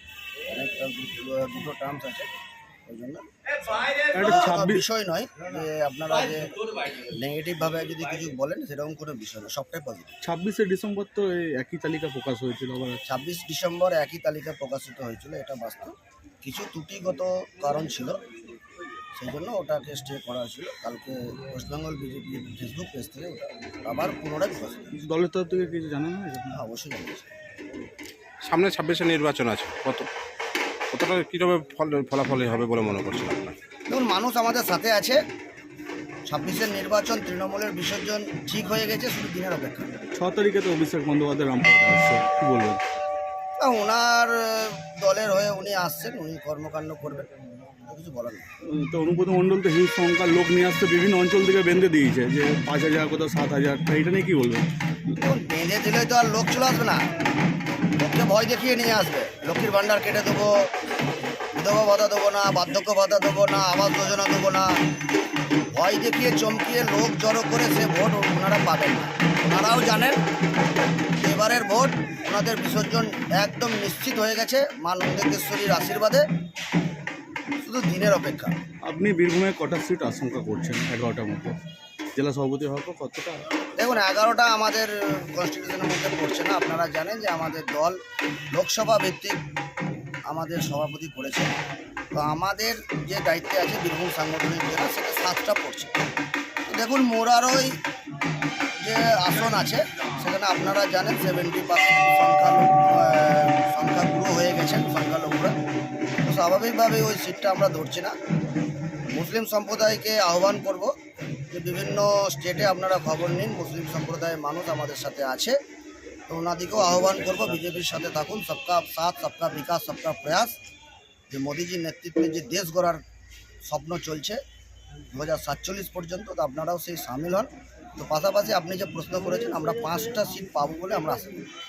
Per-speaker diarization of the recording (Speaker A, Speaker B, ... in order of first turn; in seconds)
Speaker A: 0.5-2.3, 2.8-3.2, 4.2-10.2, 13.0-18.2, 19.2-24.9, 26.5-27.3, 33.9-35.2, 36.3-40.1, 43.6-48.4, 55.2-57.0, 58.0-60.7, 61.5-64.8, 65.7-70.2, 71.2-76.3, 77.6-78.5, 83.8-88.0, 88.5-89.4, 90.3-91.5, 92.1-96.0, 96.7-97.8, 98.8-105.5, 106.2-108.1, 109.1-110.9, 111.5-115.5, 116.3-120.6, 121.3-123.0, 123.6-124.4, 125.1-131.4
Speaker B: 4.1-4.8, 10.2-13.0, 24.9-26.6, 40.1-42.8, 48.6-54.7, 78.8-81.6, 82.1-83.5
Speaker C: 28.4-30.1, 30.9-33.6